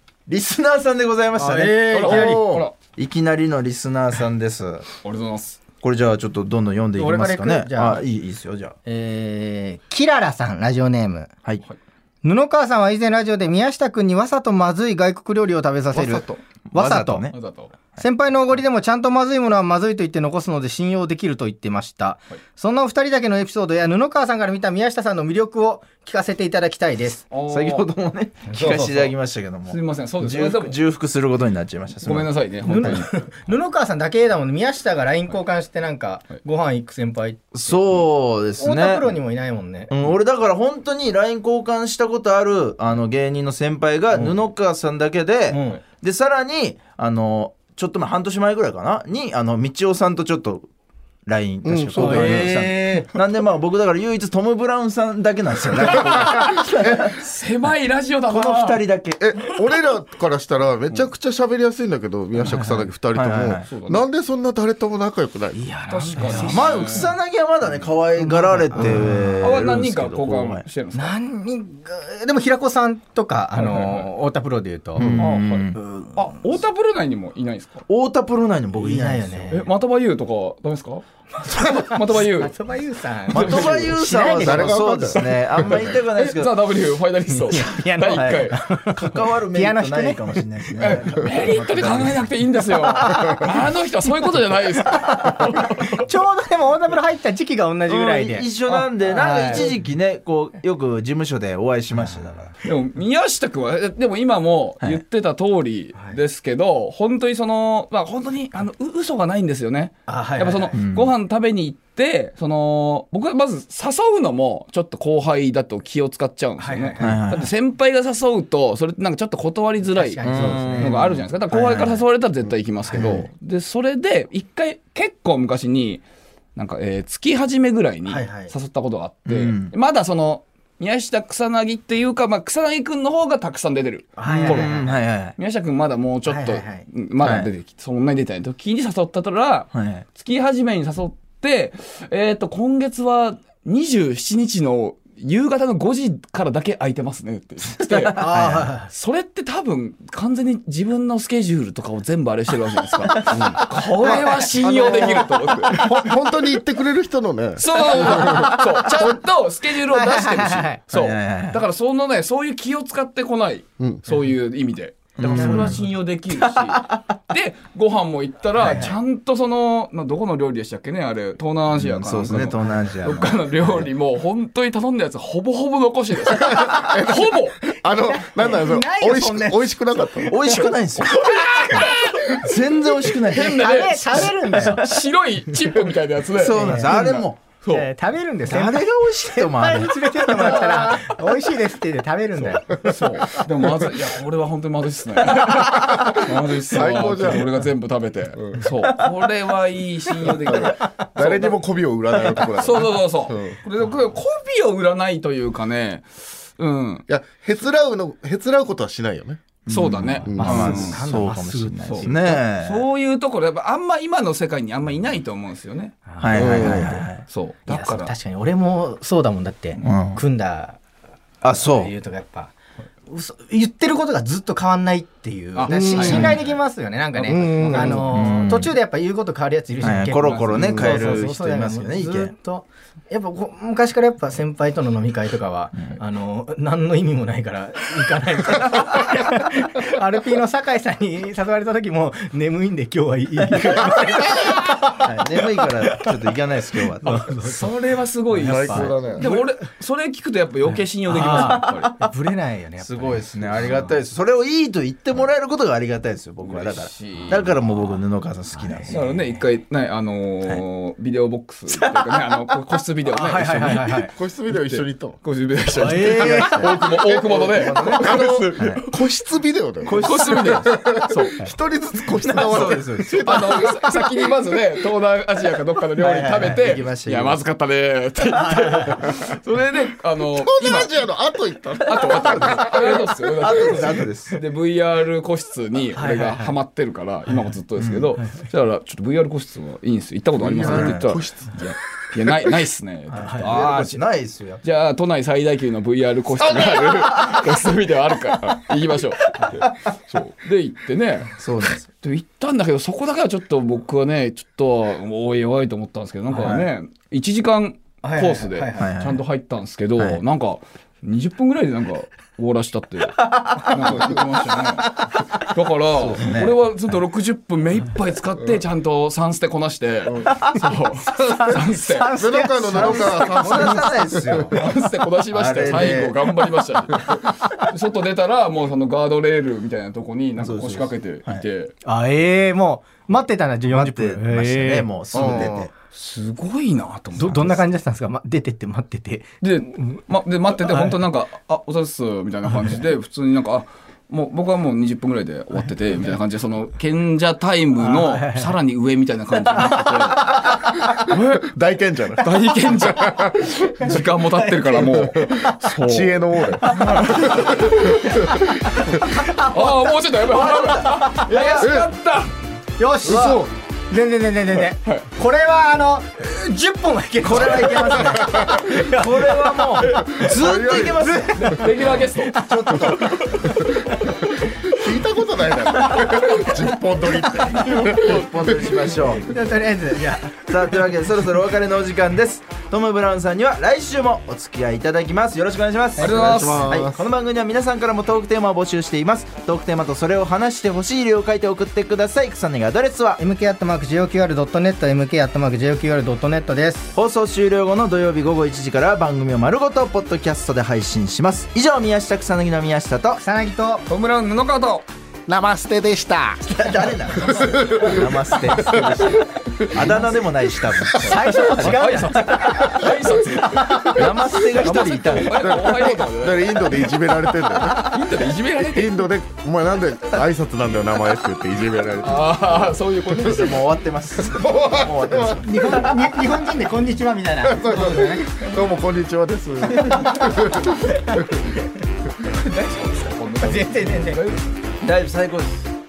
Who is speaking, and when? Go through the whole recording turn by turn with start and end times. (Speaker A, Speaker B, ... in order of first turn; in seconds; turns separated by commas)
Speaker A: 0.3-2.3, Speaker B: 1.4-2.5, Speaker C: 1.9-2.7, Speaker D: 2.0-2.7, Speaker A: 3.0-4.8, Speaker D: 5.0-5.6, Speaker A: 5.8-8.7, Speaker B: 7.0-8.0, Speaker B: 8.8-11.3, Speaker B: 12.2-17.3, Speaker A: 15.9-17.4, Speaker C: 15.9-16.4, Speaker D: 17.3-17.7, Speaker B: 18.0-27.2, Speaker D: 27.3-27.9, Speaker A: 27.5-33.0, Speaker B: 28.5-29.1, Speaker D: 28.6-28.9, Speaker D: 29.7-30.8, Speaker D: 32.0-33.1, Speaker B: 32.6-37.4, Speaker A: 37.5-39.1, Speaker B: 38.6-39.9, Speaker A: 39.9-50.7, Speaker B: 45.5-45.8, Speaker A: 51.2-57.1, Speaker C: 51.6-52.6, Speaker B: 51.9-53.1, Speaker C: 56.0-57.1, Speaker D: 57.0-58.8, Speaker A: 58.3-59.2, Speaker C: 59.2-65.7, Speaker A: 63.1-63.7, Speaker D: 63.6-64.0, Speaker B: 65.5-67.0, Speaker D: 65.9-67.1, Speaker A: 66.4-70.6, Speaker B: 68.2-69.5, Speaker D: 69.4-71.2, Speaker B: 70.9-75.1, Speaker D: 73.5-74.1, Speaker A: 75.0-75.9, Speaker C: 75.0-75.3, Speaker D: 75.1-77.8, Speaker B: 75.8-76.3, Speaker A: 77.9-79.5, Speaker B: 78.7-79.7, Speaker D: 79.5-81.0, Speaker B: 81.3-85.2, Speaker D: 81.7-82.5, Speaker D: 83.3-84.0, Speaker A: 83.3-86.7, Speaker C: 84.3-85.8, Speaker D: 85.5-88.6, Speaker B: 87.5-90.4, Speaker A: 88.1-92.3, Speaker D: 90.8-96.0, Speaker B: 92.8-93.4, Speaker B: 95.9-99.7, Speaker A: 97.8-102.5, Speaker D: 102.6-126.0, Speaker B: 110.0-110.8, Speaker A: 110.7-111.1, Speaker B: 116.6-117.2, Speaker A: 117.0-117.5, Speaker B: 119.9-121.0, Speaker A: 120.2-122.0, Speaker B: 122.9-123.2, Speaker A: 122.9-123.3, Speaker D: 126.5-148.3, Speaker B: 128.1-128.5, Speaker A: 129.3-129.7, Speaker B: 134.2-135.0, Speaker A: 134.2-135.3, Speaker B: 136.2-136.8, Speaker A: 137.2-137.5, Speaker A: 139.7-140.0, Speaker A: 148.0-148.7, Speaker B: 148.1-148.9, Speaker D: 148.9-156.0, Speaker C: 153.3-158.5, Speaker B: 154.0-154.8, Speaker D: 157.6-177.6, Speaker B: 157.9-159.2, Speaker B: 159.9-160.8, Speaker A: 160.9-161.6, Speaker C: 163.8-164.1, Speaker A: 165.2-165.8, Speaker B: 168.6-168.9, Speaker A: 171.7-173.9, Speaker C: 176.3-180.4, Speaker B: 177.9-180.7, Speaker A: 180.2-184.8, Speaker D: 180.4-187.9, Speaker B: 183.4-184.9, Speaker A: 186.3-187.4, Speaker B: 186.5-187.0, Speaker B: 187.7-193.0, Speaker A: 188.4-190.6, Speaker D: 190.3-191.0, Speaker D: 192.8-201.6, Speaker C: 195.6-197.6, Speaker C: 198.4-198.7, Speaker C: 200.5-203.6, Speaker D: 202.2-207.1, Speaker C: 207.1-209.4, Speaker A: 209.7-212.8, Speaker D: 209.7-211.0, Speaker C: 210.2-210.8, Speaker B: 210.4-212.4, Speaker D: 211.8-218.1, Speaker B: 216.1-216.6, Speaker A: 216.2-217.2, Speaker C: 216.3-217.0, Speaker B: 217.7-220.8, Speaker A: 219.8-220.2, Speaker A: 221.4-221.9, Speaker B: 221.4-222.5, Speaker B: 223.1-246.1, Speaker D: 225.5-226.5, Speaker C: 225.7-226.4, Speaker D: 227.2-228.4, Speaker C: 227.3-228.1, Speaker A: 227.7-228.7, Speaker A: 229.8-232.3, Speaker D: 230.2-230.8, Speaker C: 230.6-231.0, Speaker A: 244.9-247.3, Speaker B: 247.0-247.8, Speaker D: 247.3-251.9, Speaker B: 248.3-249.4, Speaker C: 248.4-249.4, Speaker B: 251.0-253.9, Speaker A: 252.8-259.1, Speaker D: 253.5-253.8, Speaker D: 256.4-257.6, Speaker B: 258.5-259.5, Speaker D: 258.9-268.9, Speaker B: 261.7-262.0, Speaker B: 263.1-264.1, Speaker C: 264.1-265.2, Speaker B: 265.8-266.7, Speaker A: 265.8-266.6, Speaker C: 266.6-273.7, Speaker A: 267.3-268.8, Speaker A: 269.8-270.7, Speaker D: 270.0-271.5, Speaker A: 272.3-273.5, Speaker D: 272.4-272.7, Speaker D: 273.2-281.0, Speaker A: 276.0-277.4, Speaker B: 278.4-279.1, Speaker C: 280.3-283.0, Speaker D: 281.7-294.0, Speaker A: 282.7-284.4, Speaker B: 285.9-286.5, Speaker A: 287.8-288.1, Speaker C: 290.4-291.6, Speaker A: 290.6-291.1, Speaker A: 293.1-294.6, Speaker B: 293.1-293.5, Speaker D: 294.6-301.4, Speaker C: 296.4-297.4, Speaker A: 301.4-301.9, Speaker D: 302.0-322.2, Speaker A: 306.4-306.6, Speaker B: 308.0-308.9, Speaker A: 308.8-309.2, Speaker A: 310.0-310.2, Speaker A: 315.9-316.6, Speaker C: 320.1-320.5, Speaker B: 321.1-324.5, Speaker C: 321.2-321.6, Speaker C: 322.1-324.6, Speaker A: 322.7-324.6, Speaker D: 324.5-331.7, Speaker A: 325.3-326.1, Speaker C: 325.7-326.1, Speaker A: 330.4-331.4, Speaker B: 331.8-334.9, Speaker A: 333.7-335.7, Speaker C: 335.1-335.7, Speaker D: 335.9-337.6, Speaker B: 337.1-340.0, Speaker D: 339.4-351.4, Speaker B: 340.6-341.0, Speaker B: 347.8-348.5, Speaker B: 349.5-349.8, Speaker C: 350.9-354.0, Speaker D: 352.1-358.0, Speaker B: 354.4-354.7, Speaker C: 354.7-359.2, Speaker B: 356.6-361.7, Speaker D: 359.2-362.3, Speaker C: 361.6-361.9, Speaker B: 362.8-373.5, Speaker C: 363.0-363.5, Speaker A: 363.1-363.4, Speaker A: 367.2-371.9, Speaker C: 368.0-368.6, Speaker C: 370.2-371.4, Speaker D: 371.3-372.4, Speaker A: 372.4-373.2, Speaker C: 374.5-378.8, Speaker D: 377.6-378.2, Speaker A: 377.8-379.3, Speaker B: 379.2-380.6, Speaker A: 380.5-393.2, Speaker D: 386.0-386.7, Speaker C: 386.0-387.0, Speaker B: 386.1-386.6, Speaker B: 393.2-396.9, Speaker A: 396.9-403.2, Speaker B: 403.2-403.9, Speaker D: 403.9-404.9, Speaker C: 405.3-406.4, Speaker A: 406.4-411.9, Speaker C: 407.2-410.0, Speaker B: 411.0-412.9, Speaker D: 411.0-416.9, Speaker B: 413.5-414.0, Speaker A: 413.7-415.6, Speaker C: 414.8-418.0, Speaker D: 417.6-418.9, Speaker C: 418.6-423.5, Speaker D: 422.0-423.7, Speaker A: 423.2-425.9, Speaker C: 424.2-426.1, Speaker B: 425.4-428.3, Speaker C: 427.4-431.4, Speaker B: 429.7-431.0, Speaker D: 432.2-434.4, Speaker B: 433.4-434.3, Speaker A: 434.8-435.7